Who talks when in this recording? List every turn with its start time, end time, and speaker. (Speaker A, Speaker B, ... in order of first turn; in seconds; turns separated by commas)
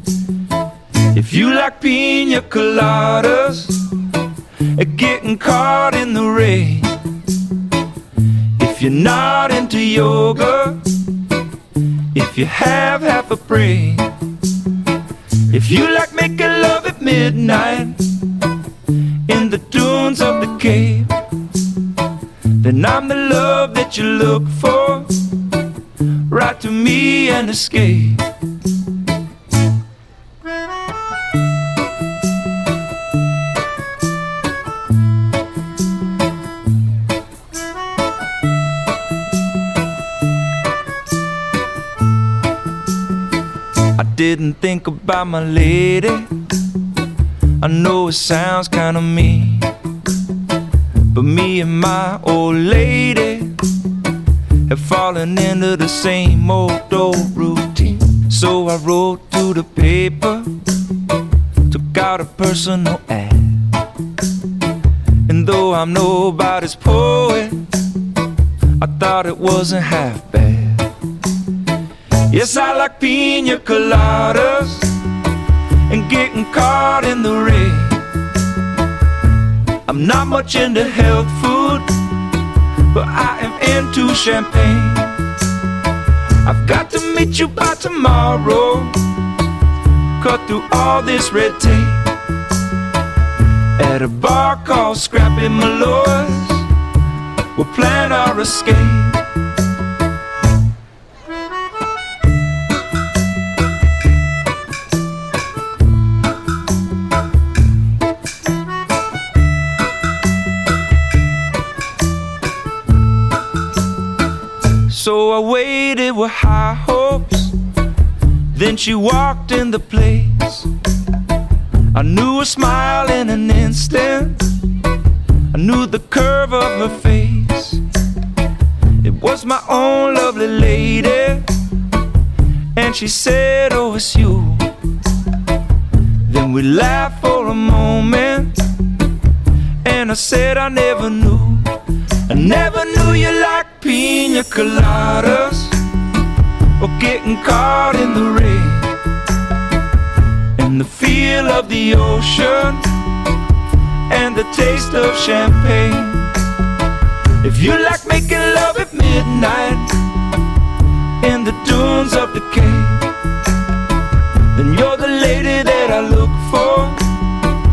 Speaker A: 1.1-3.9, Speaker A: 4.7-7.0, Speaker A: 8.6-10.8, Speaker A: 12.1-14.1, Speaker A: 15.5-18.0, Speaker A: 19.2-21.1, Speaker A: 22.6-25.3, Speaker A: 26.3-28.3, Speaker A: 43.9-46.3, Speaker A: 47.6-49.7, Speaker A: 51.1-53.6, Speaker A: 54.7-60.6, Speaker A: 61.7-63.7, Speaker A: 65.3-67.7, Speaker A: 68.8-70.9, Speaker A: 72.3-75.0, Speaker A: 75.9-78.1, Speaker A: 79.8-82.0, Speaker A: 82.9-85.2, Speaker A: 86.4-89.0, Speaker A: 90.2-92.1, Speaker A: 93.8-96.7, Speaker A: 97.5-99.2, Speaker A: 114.9-117.5, Speaker A: 118.5-120.7, Speaker A: 121.9-124.5, Speaker A: 125.5-127.8, Speaker A: 129.0-131.5, Speaker A: 132.7-134.7, Speaker A: 136.3-138.6, Speaker A: 139.8-145.8, Speaker A: 146.8-149.0, Speaker A: 150.6-152.9, Speaker A: 154.1-156.3, Speaker A: 157.4-160.1, Speaker A: 161.2-163.2, Speaker A: 164.5-167.1